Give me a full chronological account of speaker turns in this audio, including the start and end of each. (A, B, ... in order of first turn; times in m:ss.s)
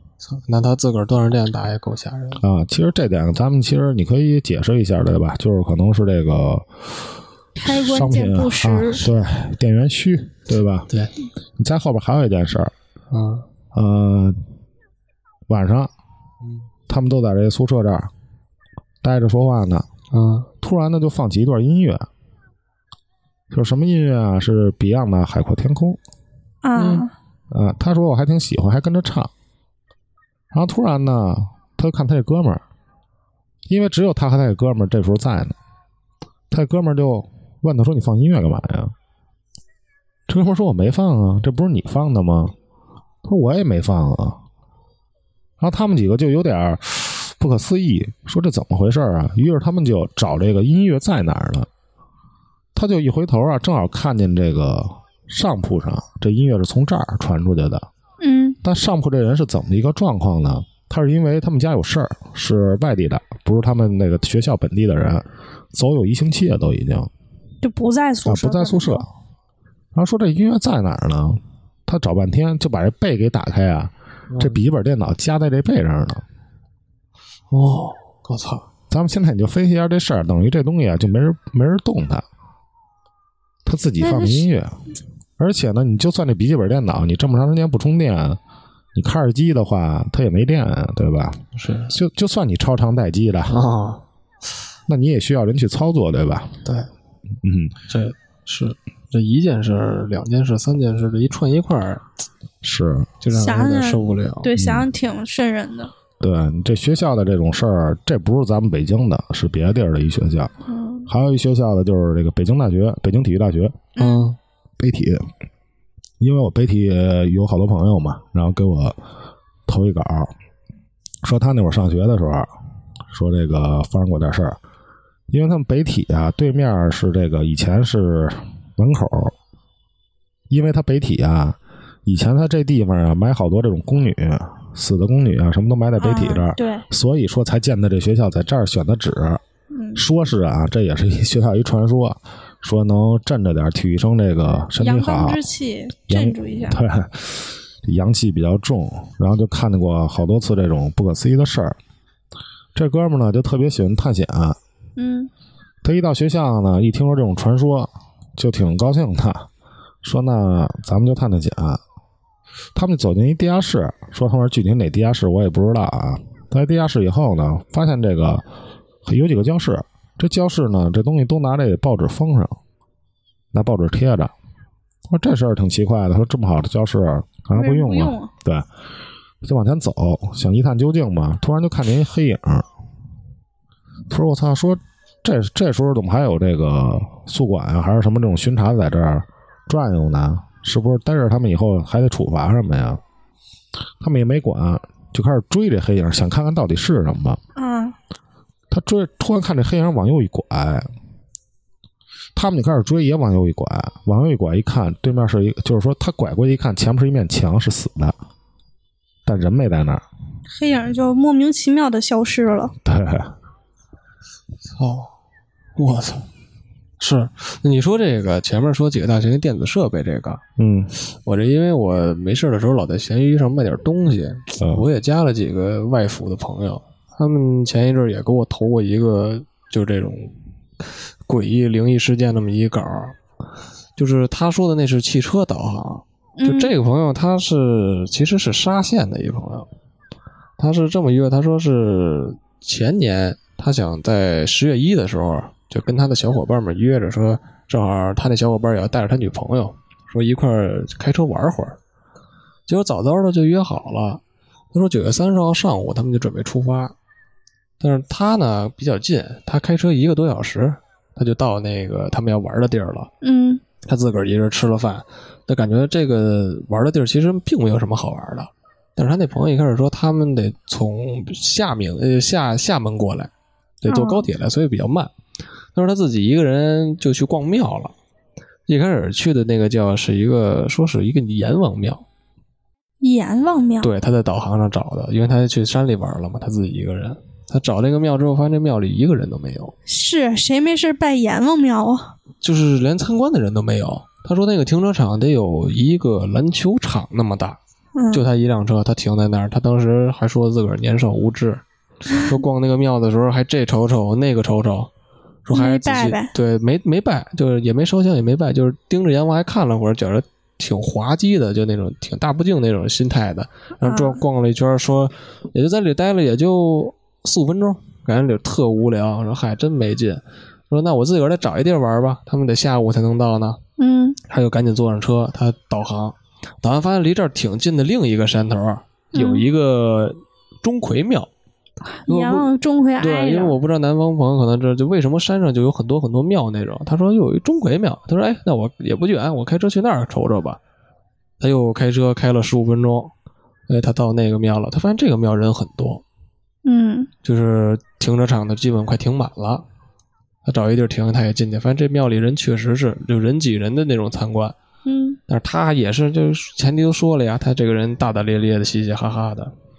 0:00.2-0:02.4 A
0:02.4-0:07.1 B
0:07.6-0:09.0 C
0:07.6-0:10.9 B
0:11.6-0:12.7 B
0:13.1-0:13.5 A
0:13.7-0:14.4 B
0:15.5-0:15.9 B
0:16.4-0:16.7 A
0:16.9-0:18.1 B
0:19.0-0:19.9 B
0:20.1-0:20.5 A
0:20.6-0:22.1 B
0:23.5-0:26.0 B
0:26.6-0:27.1 C
0:26.8-0:27.1 A
0:27.5-0:29.3 B
0:30.5-0:32.6 B
0:33.7-0:35.6 B
0:36.5-0:38.9 B
0:40.3-0:42.6 B
0:43.2-0:44.4 B
0:45.6-0:51.7 B
0:52.8-0:57.9 B
0:58.2-0:58.6 C
0:58.6-1:07.1 B
1:07.6-1:09.0 C
1:08.2-1:09.1 B
1:09.9-1:16.2 B
1:14.3-1:14.6 A
1:17.5-1:18.7 A
1:18.9-1:22.2 B
1:23.6-1:24.8 B
1:24.0-1:24.5 C
1:25.4-1:28.4 B
1:28.9-1:33.6 B
1:31.6-1:31.9 A
1:33.5-1:34.0 A
1:34.9-1:36.6 B
1:36.6-1:36.9 A
1:37.4-1:37.8 B
1:37.9-1:42.1 A
1:42.6-1:43.1 B
1:43.2-1:44.5 A
1:43.3-1:45.9 C
1:44.6-1:44.9 B
1:46.2-1:50.5 B
1:50.7-1:51.1 C
1:51.1-1:53.9 B
1:54.0-1:54.3 C
1:54.0-1:54.4 A
1:54.8-1:55.3 B
1:56.2-1:59.0 B
1:59.7-2:00.3 B
2:01.2-2:02.5 B
2:03.1-2:04.6 B
2:05.3-2:09.3 B
2:10.5-2:19.4 B
2:16.0-2:16.8 C
2:19.7-2:20.0 C
2:20.0-2:25.4 B
2:24.8-2:26.8 C
2:26.1-2:31.8 B
2:32.8-2:34.6 B
2:35.0-2:35.3 C
2:35.8-2:39.5 B
2:40.0-2:41.8 B
2:42.7-2:48.4 B
2:49.0-2:52.6 B
2:53.5-2:54.3 B
2:55.1-2:58.7 B
2:57.6-2:58.3 C
2:59.4-3:02.7 B
3:04.1-3:13.0 B
3:14.0-3:17.4 B
3:17.6-3:18.0 C
3:18.7-3:20.9 B
3:22.4-3:28.2 B
3:29.3-3:30.0 B
3:30.5-3:32.7 C
3:32.8-3:33.3 B
3:34.6-3:35.1 A
3:35.8-3:36.3 A
3:37.0-3:40.4 A
3:40.6-3:40.9 B
3:41.1-3:53.2 A
3:44.6-3:44.8 B
3:54.0-3:59.7 A
3:56.4-3:56.7 C
4:00.6-4:11.8 A
4:12.7-4:14.2 A
4:14.7-4:17.0 A
4:17.8-4:23.1 A
4:23.2-4:23.6 C
4:23.8-4:33.3 A
4:33.8-4:35.1 A
4:33.9-4:34.3 C
4:35.8-4:38.0 A
4:38.7-4:42.0 A
4:43.0-4:43.9 C
4:43.8-4:49.8 A
4:49.9-4:52.2 C
4:52.4-4:57.6 A
4:58.0-4:58.2 C
4:58.1-5:01.6 A
5:02.2-5:04.9 A
5:05.4-5:23.6 A
5:05.5-5:06.3 C
5:13.8-5:14.2 C
5:23.8-5:24.2 C
5:24.3-5:31.3 A
5:29.2-5:29.5 C
5:31.9-5:33.6 C
5:32.1-5:40.6 A
5:41.4-5:43.1 A
5:43.7-5:46.0 A
5:46.6-5:47.1 C
5:47.2-5:49.7 A
5:50.4-5:54.6 A
5:54.9-5:55.2 C
5:55.3-5:59.5 A